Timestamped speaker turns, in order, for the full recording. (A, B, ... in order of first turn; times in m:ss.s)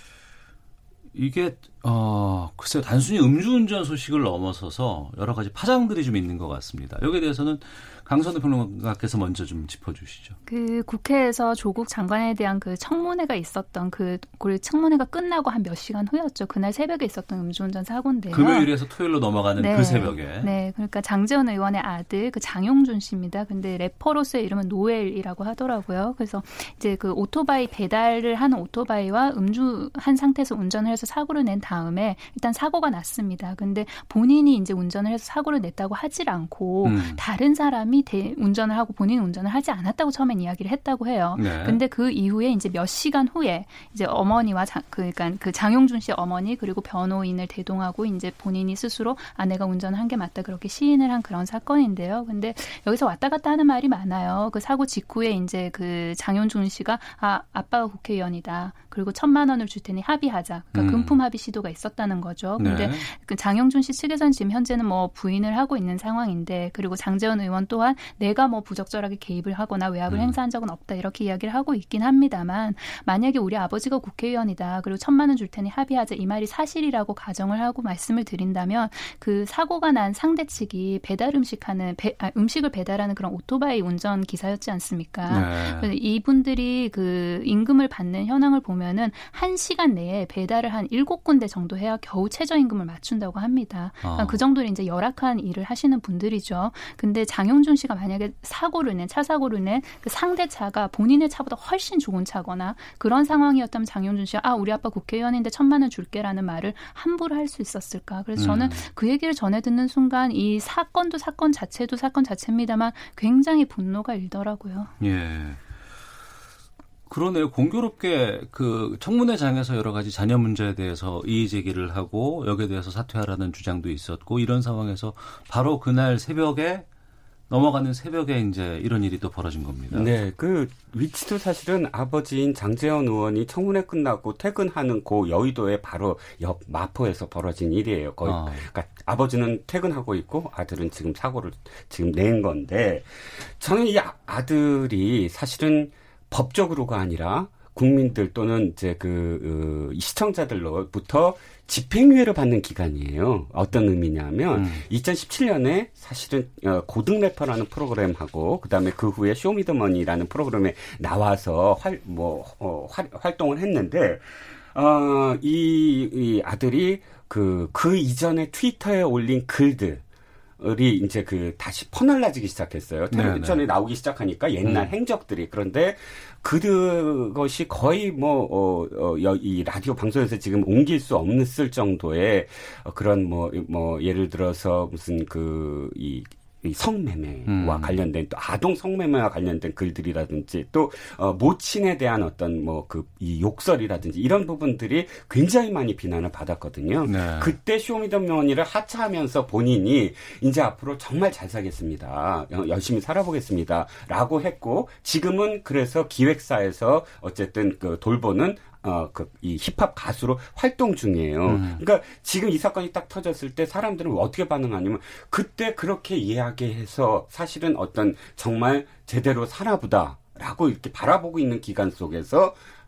0:01.1-0:10.4 A
0:10.5-0:18.7 B
0:18.3-0:20.5 A
0:19.6-1:54.9 B
0:36.8-0:37.2 A
0:41.4-0:41.8 A
1:00.7-1:01.2 A
1:02.6-1:03.0 A
1:10.1-1:10.4 A
1:25.3-1:25.9 A
1:34.0-1:34.4 A
1:48.4-1:48.9 A
1:55.0-1:55.6 A
1:57.1-2:06.8 A
2:07.5-2:10.1 A
2:09.9-2:50.0 C
2:18.2-2:18.6 A
2:34.5-2:34.8 A
2:50.6-3:42.6 C
2:53.1-2:53.6 A
2:54.6-2:54.9 A
3:07.5-3:08.0 A
3:17.0-3:17.5 A
3:31.5-3:31.8 A